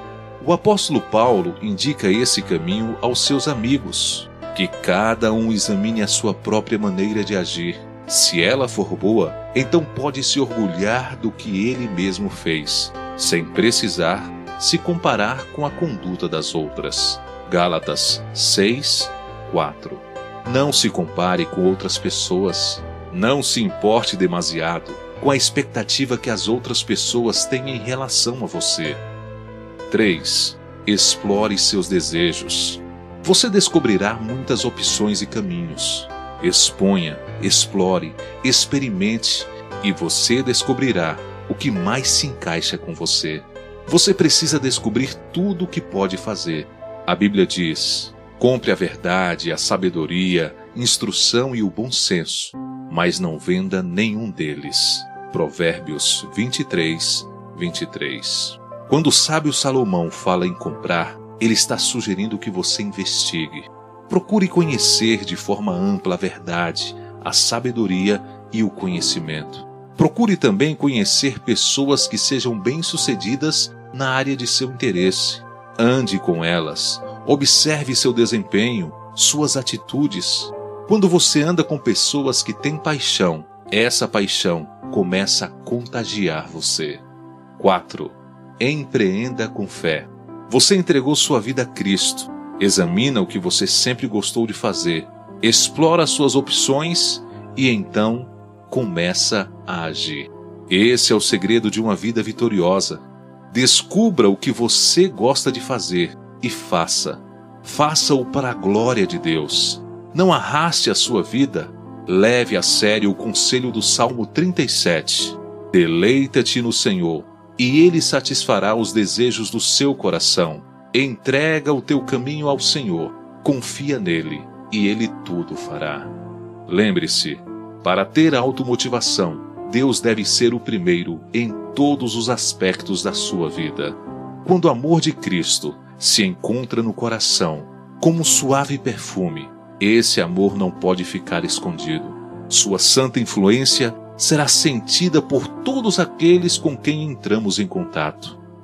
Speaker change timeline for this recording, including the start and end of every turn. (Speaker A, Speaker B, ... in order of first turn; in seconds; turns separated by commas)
Speaker A: 0.4-29.0, Speaker A: 29.9-87.0, Speaker A: 87.6-126.1, Speaker A: 126.7-148.4